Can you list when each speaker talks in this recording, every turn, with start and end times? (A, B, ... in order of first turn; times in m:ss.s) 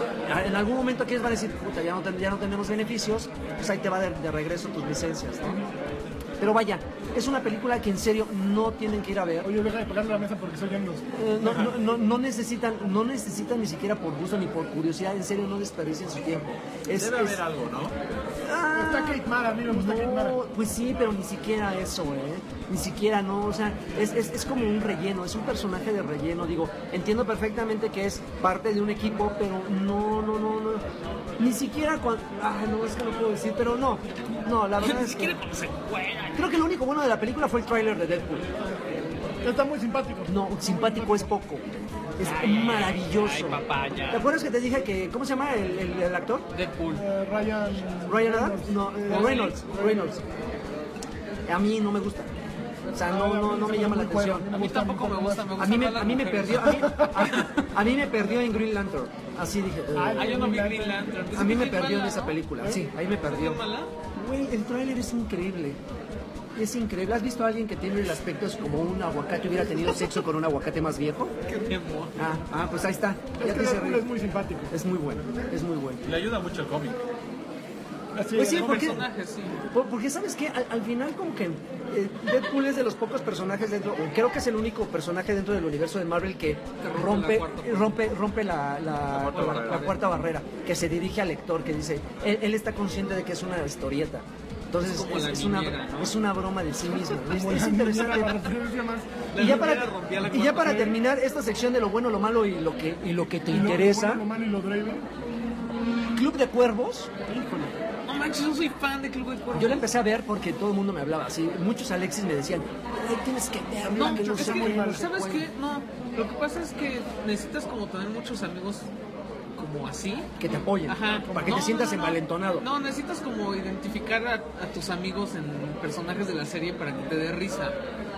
0:00.3-0:05.6 A
0:06.4-0:09.5 A
0:09.4-0:11.0 B
0:11.2-0:17.4 A
0:16.9-0:18.0 C
0:18.4-0:30.8 A
0:18.7-0:20.4 B
0:31.4-0:35.4 A
0:34.8-0:36.5 D
0:36.4-0:38.5 A
0:39.4-0:41.3 B
0:40.3-0:46.5 A
0:42.2-0:44.3 D
0:46.5-0:47.0 D
0:46.9-0:50.2 B
0:48.1-0:50.2 A
0:49.1-0:49.6 D
0:51.5-0:52.3 A
0:52.9-0:54.5 A
0:53.0-0:55.6 B
0:54.5-0:57.5 D
0:55.6-1:00.5 A
1:00.0-1:01.1 B
1:00.2-1:02.4 D
1:01.4-1:03.6 A
1:03.2-1:03.9 D
1:04.2-1:05.8 A
1:06.6-1:11.3 A
1:11.5-1:12.2 D
1:12.2-1:14.1 A
1:13.4-1:14.7 B
1:14.7-1:16.0 A
1:16.0-1:17.0 C
1:18.2-1:19.1 B
1:18.3-1:19.6 D
1:19.7-1:38.5 A
1:26.8-1:28.0 D
1:29.1-1:30.0 C
1:29.5-1:29.8 D
1:34.8-1:36.2 D
1:37.1-1:39.8 B
1:39.3-1:41.0 D
1:39.4-1:44.2 A
1:43.5-1:45.1 B
1:46.1-1:47.1 A
1:47.3-1:47.8 B
1:48.1-1:49.9 D
1:49.5-1:55.5 A
1:53.8-1:55.1 B
1:54.0-1:58.9 D
1:59.6-2:00.3 D
2:00.4-2:02.6 A
2:00.9-2:07.8 D
2:01.2-2:01.6 B